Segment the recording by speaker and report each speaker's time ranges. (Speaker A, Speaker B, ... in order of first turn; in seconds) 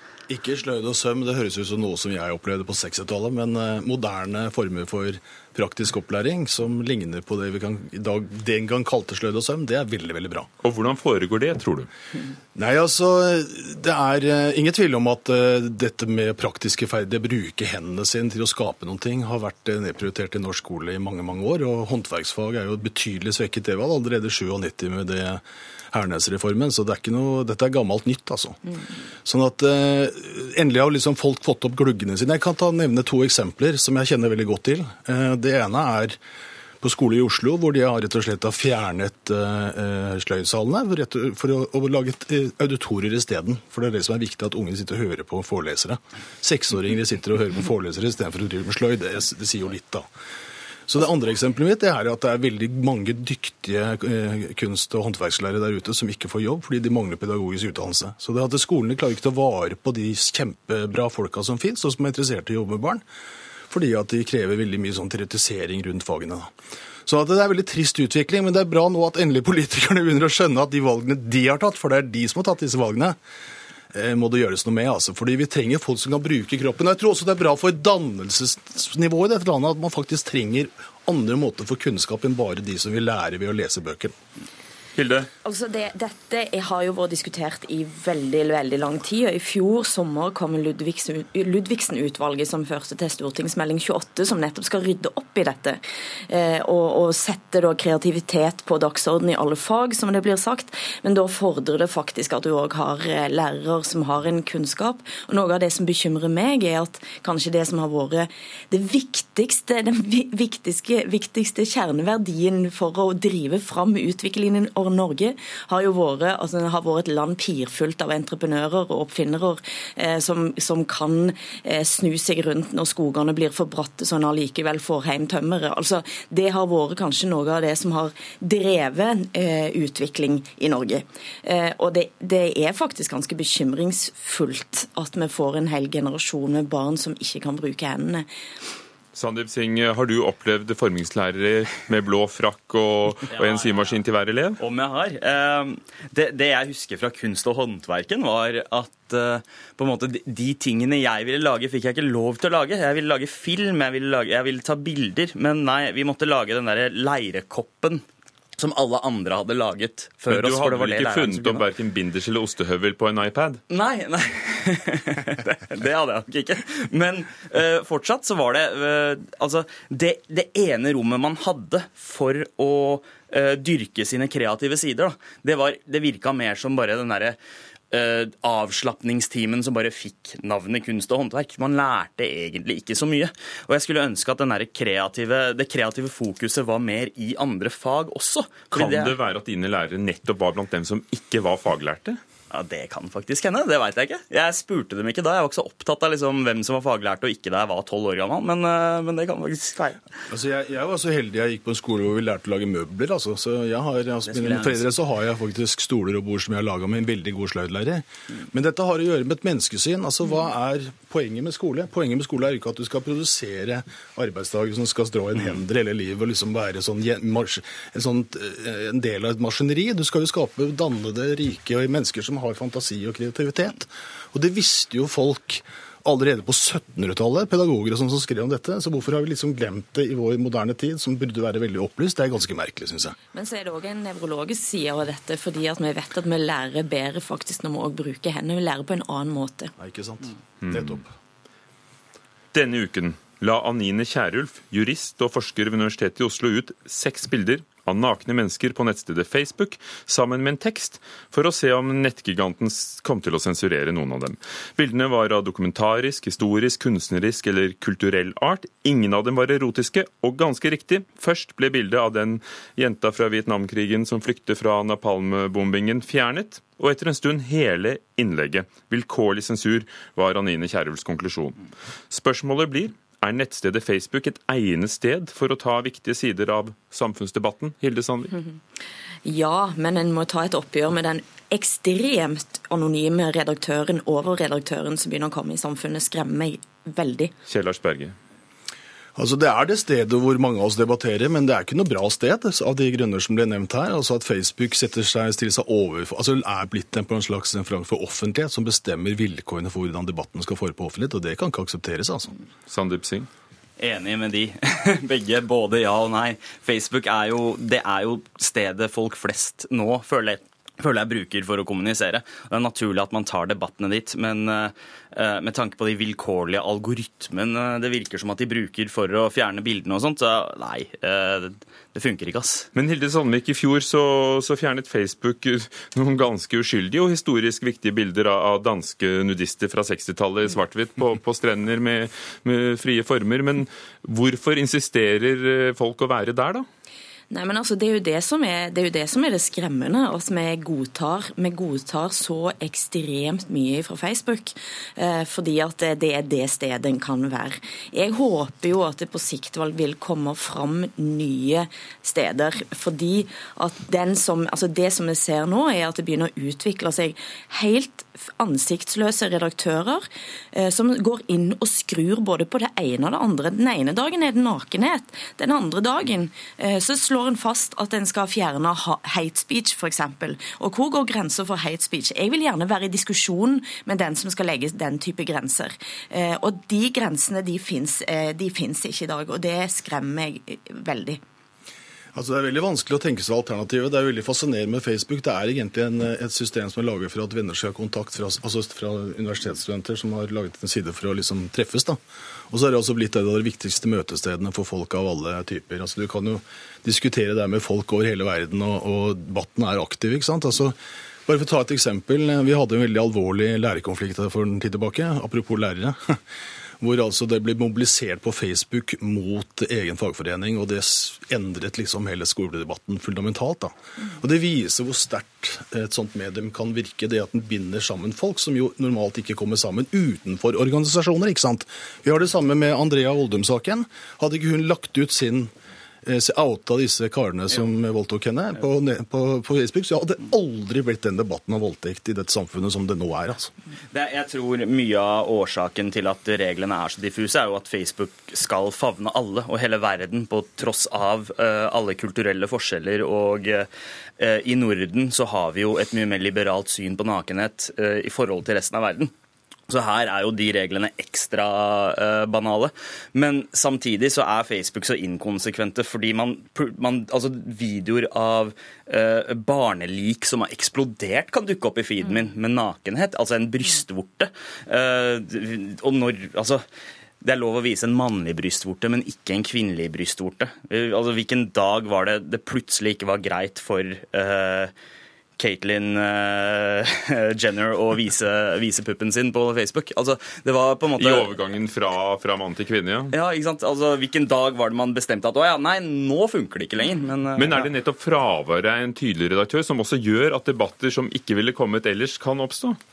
Speaker A: 0.3-10.5, 12.6-28.6, 29.2-36.2, 36.8-50.1, 50.9-63.0, 63.7-66.5, 67.1-73.2, 73.9-84.2, 200.3-233.2, 239.8-241.1, 289.2-302.3, 382.1-392.0, 392.5-400.8, 401.3-406.2, 406.8-425.5, 426.0-433.5
Speaker B: 10.6-11.9, 85.0-85.3, 139.1-144.6, 160.2-163.6, 188.7-192.2, 240.6-241.0, 242.5-278.3, 287.5-288.2, 302.7-303.3, 322.7-336.7, 481.0-483.1, 487.4-492.8
Speaker C: 85.4-138.3, 233.3-239.7, 279.2-287.3, 337.3-381.2
Speaker D: 143.3-144.0, 144.6-158.0, 158.6-161.7, 163.7-177.4, 177.9-189.2, 192.5-199.9, 204.2-204.8, 303.8-322.7, 433.9-443.7, 444.2-449.1, 449.7-466.6, 467.2-474.7, 475.4-481.3, 483.1-487.7